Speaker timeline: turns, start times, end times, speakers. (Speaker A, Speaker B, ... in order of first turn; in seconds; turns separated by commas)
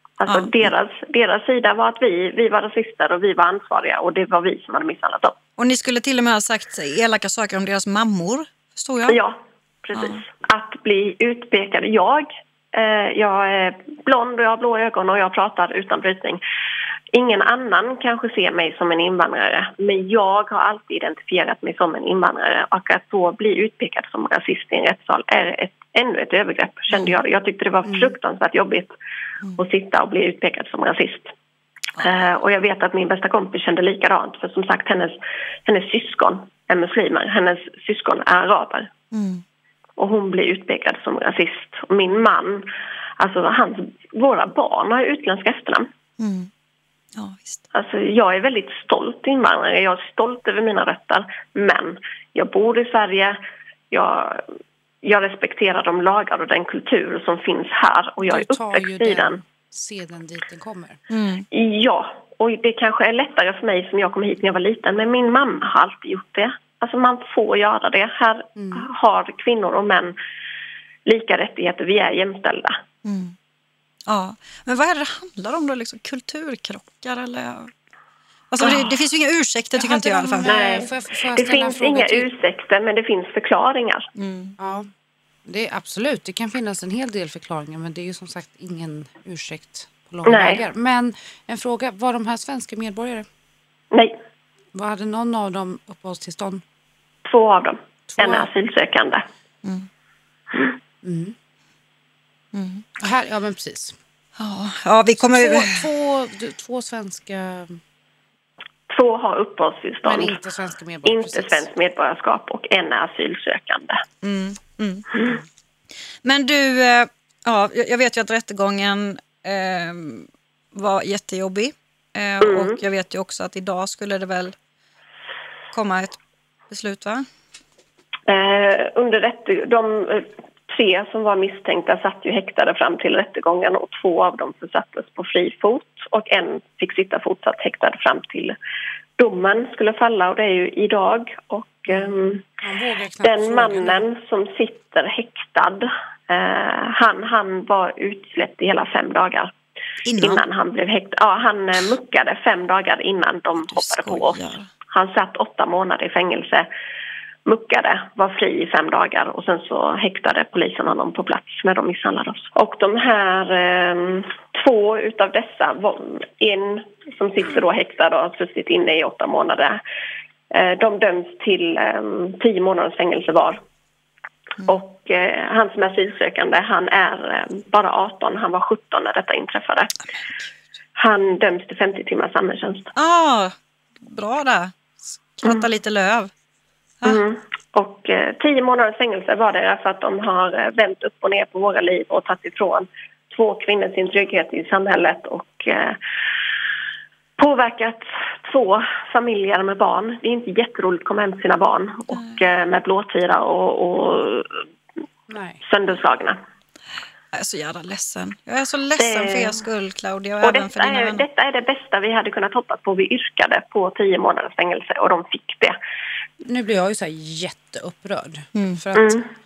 Speaker A: 0.2-5.4, Speaker B: 0.2-0.5, Speaker B: 5.6-9.2, Speaker A: 9.1-16.4, Speaker B: 9.9-10.2, Speaker A: 17.1-28.9, Speaker C: 27.8-28.1, Speaker A: 29.6-31.3, Speaker B: 32.0-32.2, Speaker A: 32.0-38.9, Speaker B: 39.1-39.4, Speaker A: 40.0-42.7, Speaker A: 43.2-45.9, Speaker B: 46.2-46.5, Speaker B: 47.1-47.6, Speaker A: 47.7-53.4, Speaker A: 53.9-54.5, Speaker A: 55.0-59.4, Speaker C: 58.2-61.0, Speaker B: 61.1-61.4, Speaker A: 61.5-70.1, Speaker C: 68.5-68.9, Speaker A: 71.0-72.8, Speaker B: 73.0-73.3, Speaker B: 74.1-77.7, Speaker B: 78.5-80.5, Speaker C: 79.8-82.3, Speaker A: 80.4-84.1, Speaker B: 84.2-84.5, Speaker C: 84.6-84.9, Speaker C: 85.4-93.2, Speaker A: 90.2-90.6, Speaker A: 93.9-94.2, Speaker C: 94.7-96.6, Speaker A: 97.2-99.2, Speaker C: 98.1-98.5, Speaker C: 101.0-101.3, Speaker B: 102.5-102.9, Speaker C: 103.0-104.0, Speaker B: 104.4-105.9, Speaker C: 105.2-107.8, Speaker A: 108.9-110.4, Speaker C: 110.0-111.7, Speaker A: 111.0-114.0, Speaker B: 114.2-115.3, Speaker B: 116.2-124.5, Speaker A: 122.4-122.8, Speaker B: 125.7-127.2, Speaker A: 128.3-138.6, Speaker A: 139.2-142.4, Speaker C: 141.9-144.0, Speaker A: 143.2-149.5, Speaker B: 150.0-150.4, Speaker A: 150.2-156.7, Speaker B: 153.6-154.7, Speaker A: 157.4-169.8, Speaker A: 170.5-173.6, Speaker A: 174.7-179.9, Speaker A: 181.0-182.9, Speaker B: 182.9-186.3, Speaker A: 187.0-196.0, Speaker A: 197.4-204.6, Speaker B: 202.1-202.4, Speaker C: 205.3-205.6, Speaker A: 205.6-206.4, Speaker B: 207.3-211.2, Speaker A: 209.0-209.6, Speaker A: 210.4-215.8, Speaker C: 216.4-219.2, Speaker B: 218.5-218.8, Speaker A: 218.9-219.2